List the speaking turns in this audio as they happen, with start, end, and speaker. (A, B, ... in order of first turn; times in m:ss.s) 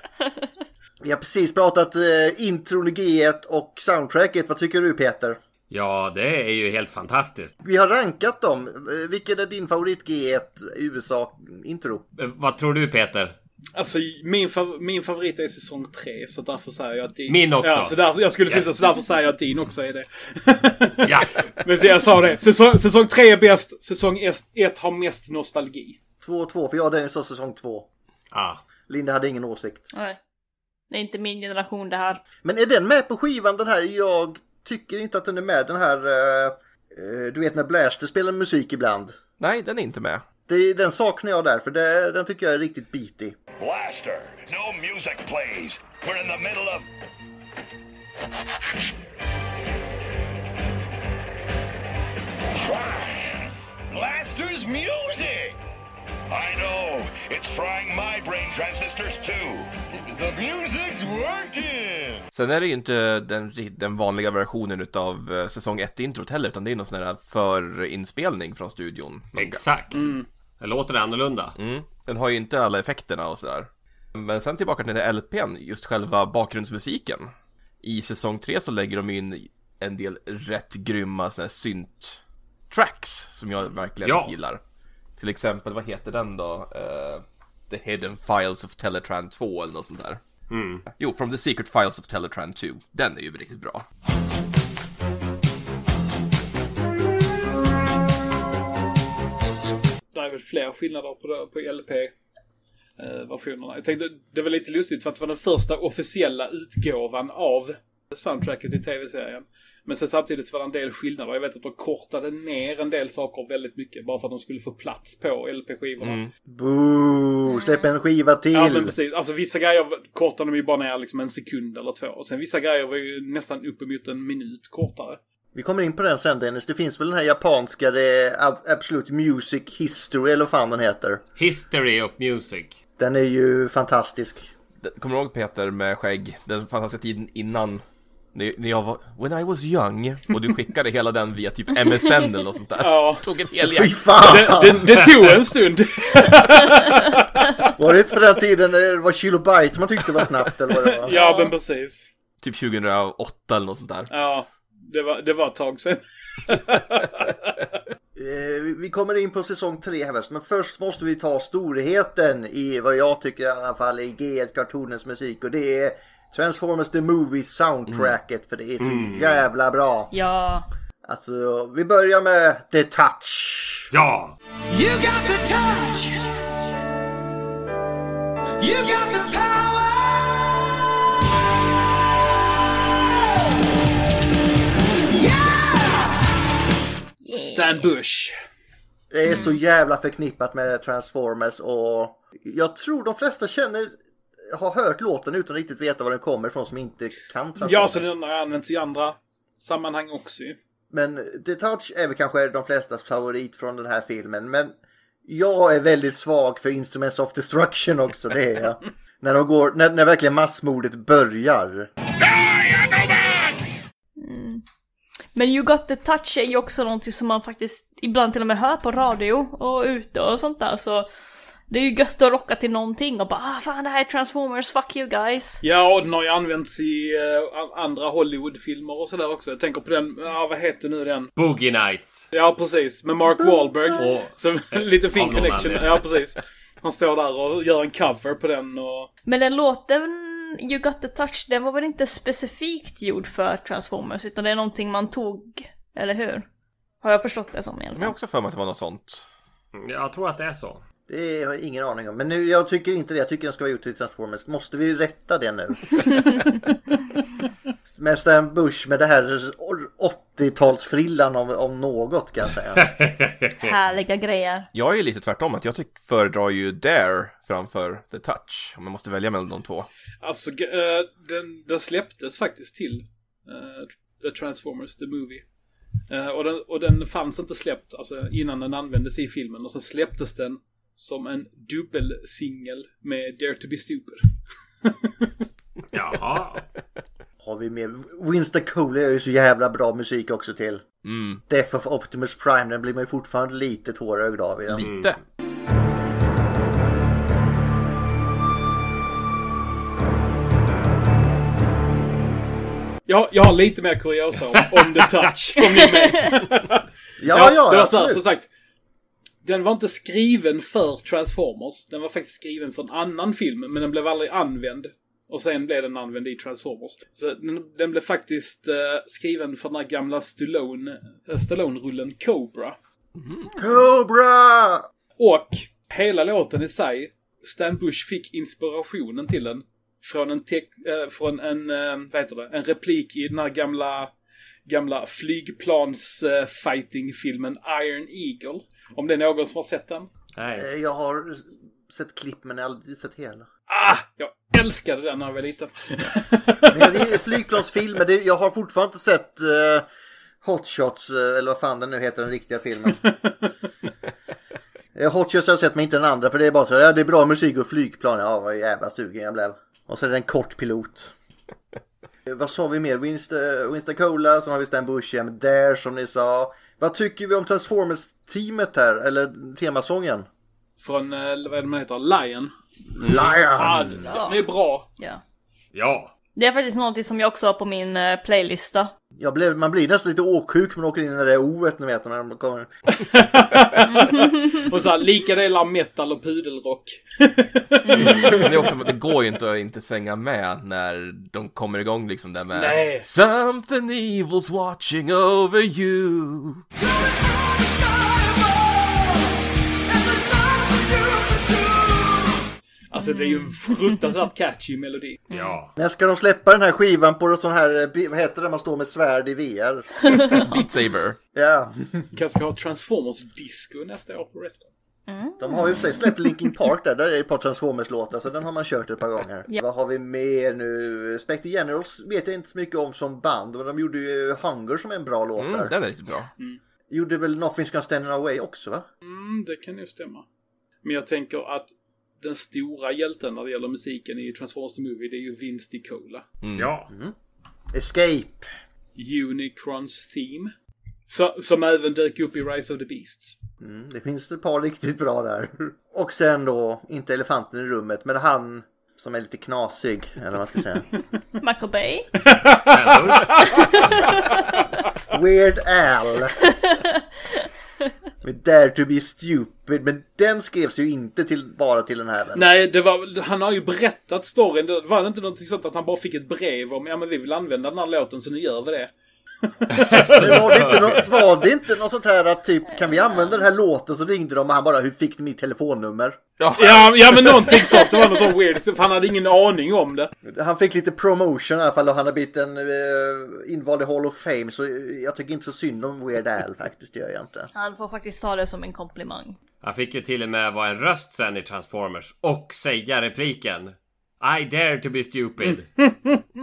0:01.0-0:05.4 A
0:05.7-0:07.6 B
0:07.6-0:12.0 A
0:12.2-0:13.4 B
0:13.8-0:26.0 C
0:17.3-0:18.8 B
0:21.0-0:21.3 B
0:26.2-0:27.9 A
0:28.3-0:28.6 B
0:28.9-0:29.9 A
0:29.9-0:30.2 D
0:30.9-0:32.2 D
0:32.4-0:39.2 A
0:39.4-0:40.2 E
0:40.5-0:43.4 A
0:43.6-0:46.9 F
0:52.5-0:55.6 F
0:56.3-1:02.2 F
1:02.3-1:09.6 E
1:09.4-1:11.6 B
1:09.9-1:10.3 C
1:11.6-1:24.6 E
1:24.0-1:24.4 B
1:25.2-1:30.2 E
1:30.5-1:30.8 B
1:30.9-1:33.8 E
1:40.1-1:42.1 C
1:43.0-1:56.2 C
1:56.0-1:56.3 E
1:56.5-1:58.9 A
1:57.5-1:57.9 D
1:58.5-2:05.2 C
2:05.5-2:11.2 A
2:11.4-2:12.8 B
2:13.0-2:14.5 A
2:14.8-2:24.0 E
2:22.8-2:23.3 C
2:23.6-2:24.9 A
2:24.2-2:27.7 C
2:27.8-2:31.2 A
2:30.9-2:32.1 C
2:31.1-2:31.5 D
2:32.4-2:34.1 E
2:34.1-2:37.6 C
2:38.2-2:50.1 A
2:48.8-2:49.4 B
2:50.1-2:50.7 D
2:51.0-2:53.9 A
2:53.9-2:54.4 B
2:54.7-2:56.4 G
2:58.6-3:00.4 G
3:05.1-3:06.2 G
3:07.2-3:07.9 D
3:07.3-3:08.3 C
3:09.1-3:14.0 A
3:09.3-3:09.6 D
3:14.5-3:18.1 A
3:17.6-3:20.6 C
3:20.9-3:24.8 A
3:25.3-3:31.9 A
3:32.2-3:33.6 F
3:34.2-3:34.6 D
3:35.4-3:41.1 D
3:41.7-3:45.6 D
3:45.6-3:51.3 C
3:51.4-3:52.3 B
3:52.3-3:59.1 C
3:54.0-3:56.1 B
3:59.3-4:06.5 D
4:07.0-4:08.1 D
4:08.0-4:09.3 E
4:09.7-4:10.8 B
4:11.1-4:16.3 A
4:17.9-4:22.9 A
4:22.8-4:23.7 B
4:23.6-4:24.7 D
4:24.7-4:29.9 E
4:30.2-4:35.4 C
4:36.1-4:44.2 C
4:44.8-4:45.4 C
4:45.9-4:46.6 B
4:47.4-4:50.8 A
4:51.0-4:51.4 E
4:51.5-4:54.9 A
4:54.7-4:55.2 E
4:54.8-4:55.1 B
5:03.1-5:08.5 C
5:04.6-5:05.1 B
5:07.2-5:08.2 A
5:09.4-5:22.8 C
5:23.2-5:23.5 E
5:23.5-5:24.9 A
5:25.2-5:34.1 C
5:34.7-5:40.1 C
5:40.4-5:40.7 B
5:40.5-5:43.5 A
5:43.7-5:47.2 C
5:46.7-5:49.8 A
5:50.4-5:53.0 A
5:52.9-5:53.4 C
5:55.0-6:01.1 A
6:02.3-6:10.3 A
6:10.8-6:14.9 C
6:13.0-6:14.0 A
6:14.0-6:14.4 D
6:15.7-6:16.1 B
6:16.4-6:18.9 D
6:19.2-6:22.7 A
6:23.0-6:28.5 C
6:23.9-6:24.6 D
6:27.9-6:28.4 D
6:28.0-6:36.6 E
6:32.5-6:33.1 C
6:38.0-6:38.4 G
6:40.0-6:41.4 G
6:42.9-6:45.2 C
6:43.0-6:43.5 D
6:45.3-6:45.6 D
6:45.3-6:45.7 B
6:45.8-6:50.1 A
6:50.1-6:50.4 D
6:50.4-6:51.2 E
6:51.3-6:51.9 A
6:52.1-6:54.7 C
6:55.1-6:56.1 D
6:55.4-7:05.7 A
7:05.4-7:06.3 E
7:06.9-7:08.9 A
7:09.0-7:10.2 C
7:10.8-7:16.2 C
7:16.4-7:16.7 E
7:16.6-7:16.9 B
7:16.9-7:17.2 A
7:17.7-7:18.5 A
7:19.0-7:20.5 C
7:21.1-7:23.4 C
7:23.6-7:30.9 A
7:31.4-7:32.1 D
7:32.3-7:33.7 C
7:32.7-7:33.8 B
7:35.1-7:36.4 A
7:38.2-7:42.5 A
7:42.3-7:48.9 C
7:49.4-7:50.7 C
7:49.7-7:51.2 B
7:50.1-7:56.2 A
7:56.4-7:57.9 E
7:56.6-8:00.1 C
8:00.2-8:07.5 A
8:07.6-8:09.4 D
8:09.6-8:15.7 B
8:15.5-8:16.2 C